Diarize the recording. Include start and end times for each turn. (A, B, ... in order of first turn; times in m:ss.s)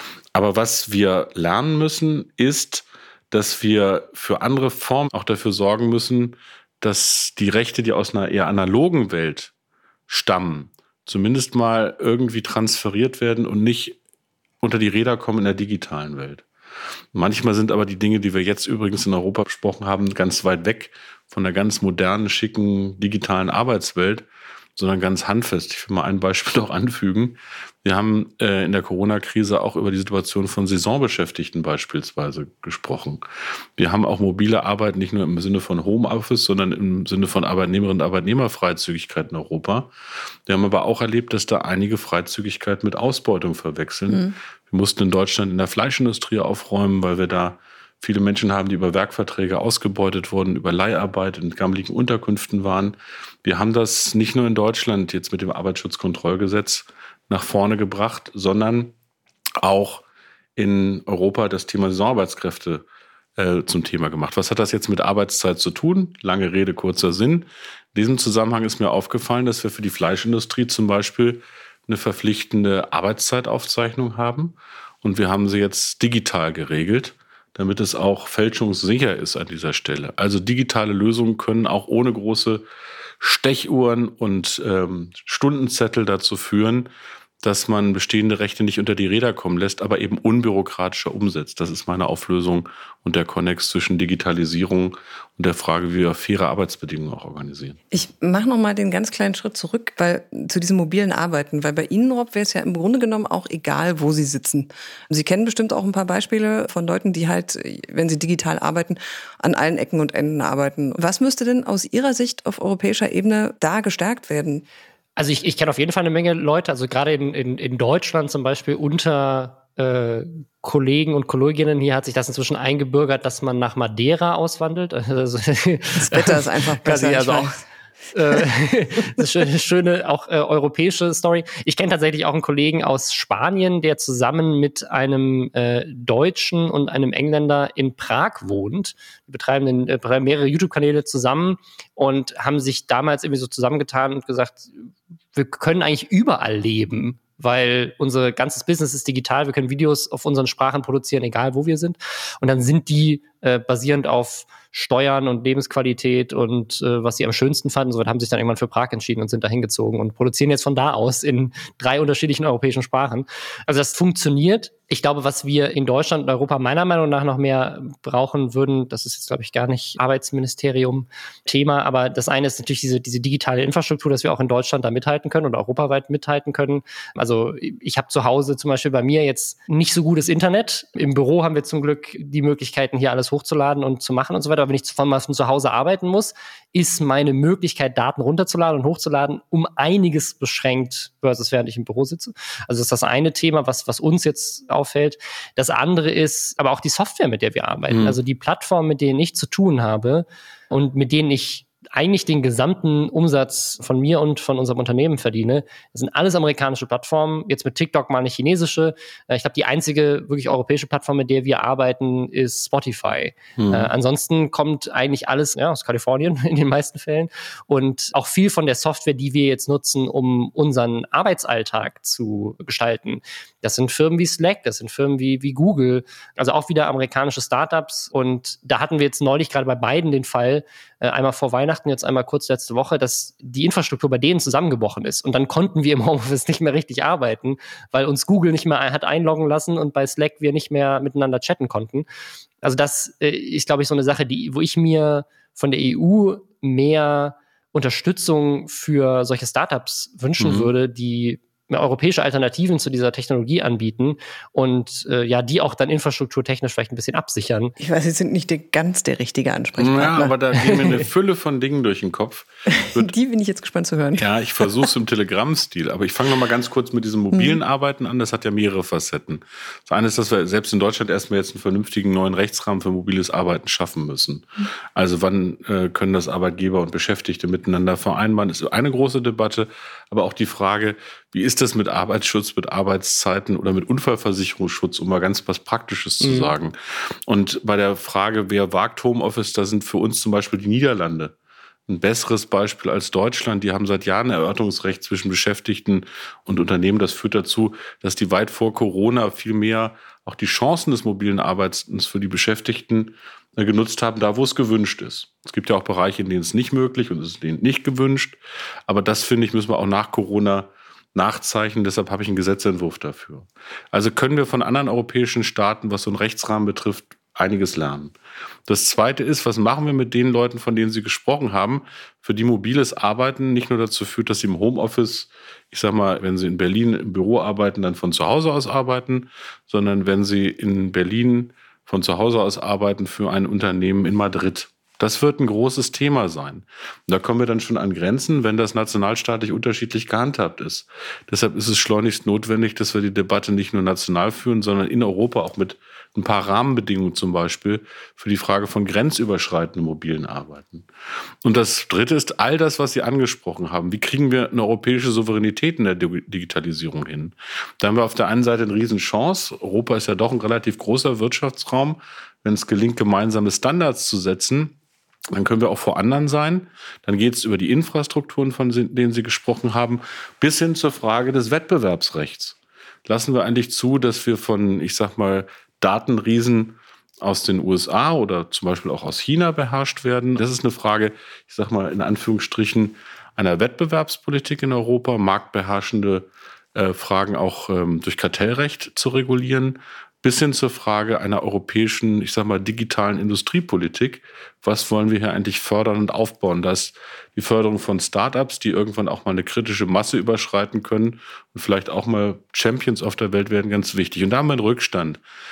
0:00.3-0:09.5 A
0:10.1-0:14.0 A
0:14.6-0:16.4 A
0:17.1-0:24.2 A
0:24.8-0:33.2 A
0:33.8-0:39.9 A
0:40.5-0:58.9 A
0:59.6-1:00.0 A
1:00.6-1:02.8 A
1:03.4-1:22.6 A
1:23.2-1:26.9 A
1:27.4-1:37.8 A
1:37.9-1:54.6 B
1:55.2-2:07.5 C
2:06.0-2:07.5 B
2:08.1-2:24.7 C
2:25.3-4:02.1 C
3:17.9-3:18.2 A
3:33.6-3:33.9 A
4:02.6-4:17.7 C
4:10.4-4:10.7 A
4:17.8-4:20.8 B
4:19.8-4:23.1 A
4:22.8-4:24.9 B
4:24.2-4:51.3 A
4:27.3-4:27.6 B
4:46.2-4:46.5 C
4:51.9-5:18.1 A
5:18.7-5:50.9 A
5:51.4-6:04.8 A
6:05.3-6:45.2 A